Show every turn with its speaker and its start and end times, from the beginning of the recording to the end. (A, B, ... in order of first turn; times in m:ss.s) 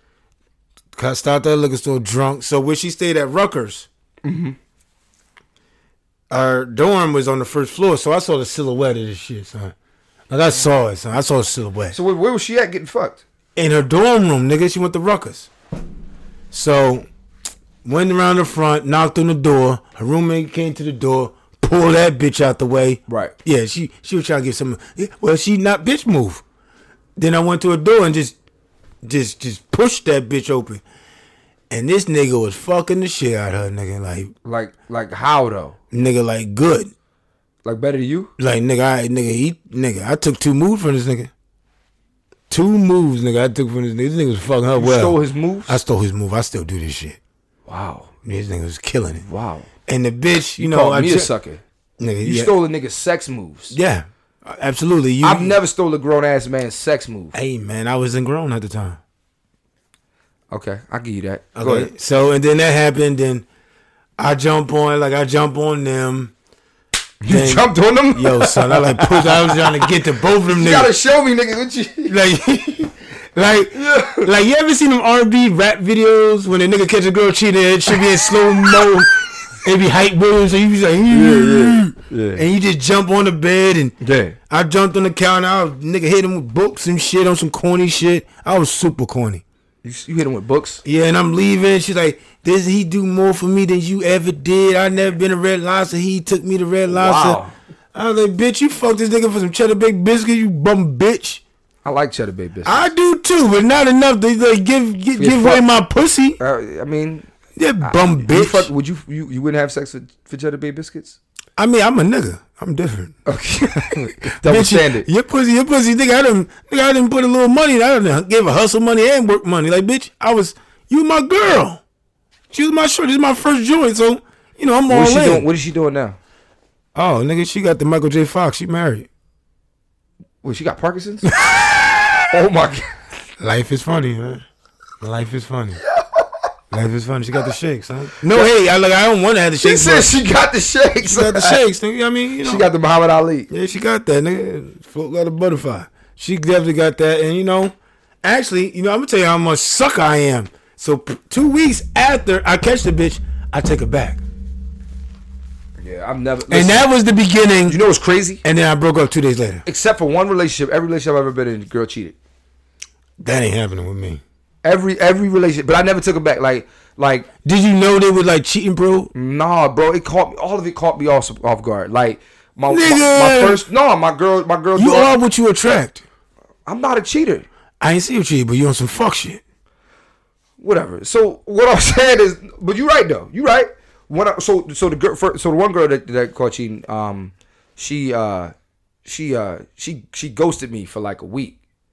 0:01.0-0:03.9 A
0:04.2-0:04.6 B
0:06.3-0:09.7 A
0:10.3-0:12.0 A
0:11.9-0:13.2 B
0:13.6-0:15.5 A
0:16.5-0:17.1 A
0:17.8-0:26.4 A
0:23.1-0:23.3 B
0:27.2-0:28.4 A
0:29.0-0:30.8 A
0:31.7-0:34.3 A
0:34.4-0:35.8 B
0:35.9-0:36.9 A
0:37.6-0:38.3 B
0:38.4-0:41.3 A
0:42.5-0:47.2 A
0:44.8-0:45.8 B
0:47.7-0:48.1 B
0:48.2-0:49.2 A
0:49.2-0:49.7 B
0:49.9-0:51.3 A
0:50.6-0:51.6 B
0:52.0-0:52.5 A
0:52.2-0:53.8 B
0:53.7-0:55.6 A
0:55.2-0:57.4 B
0:57.3-0:59.0 A
1:00.5-1:01.9 B
1:01.6-1:03.5 A
1:04.2-1:06.3 A
1:07.2-1:12.2 B
1:07.3-1:10.9 A
1:12.1-1:19.1 A
1:13.7-1:14.3 B
1:17.9-1:18.9 B
1:19.6-1:24.0 A
1:21.1-1:22.4 B
1:24.0-1:24.4 B
1:24.5-1:29.4 A
1:29.8-1:30.8 B
1:30.8-1:37.4 A
1:36.9-1:37.5 B
1:37.9-1:41.4 A
1:41.8-1:42.9 B
1:42.6-1:46.4 A
1:45.2-1:45.6 B
1:46.4-1:47.3 B
1:47.6-1:48.7 A
1:47.8-1:51.2 B
1:51.6-1:53.2 A
1:53.3-1:55.1 B
1:54.4-2:01.8 A
2:02.5-2:05.5 A
2:04.9-2:06.2 B
2:07.0-2:09.1 A
2:10.4-2:11.3 B
2:11.3-2:12.3 A
2:12.3-2:12.9 B
2:13.4-2:14.4 A
2:15.0-2:15.8 A
2:15.8-2:16.2 B
2:16.7-2:20.1 A
2:19.6-2:21.6 B
2:21.0-2:22.7 A
2:22.4-2:23.5 B
2:23.5-2:34.2 A
2:35.8-2:36.9 B
2:36.5-2:37.8 A
2:37.7-2:38.4 B
2:38.4-2:39.6 A
2:39.7-2:42.2 B
2:43.2-2:44.2 A
2:44.6-2:47.3 B
2:47.4-2:49.1 A
2:49.1-2:55.1 B
2:52.7-2:53.6 A
2:54.8-2:56.0 A
2:56.7-2:57.5 B
2:57.8-2:59.4 A
3:00.6-3:08.5 B
3:09.0-3:11.6 B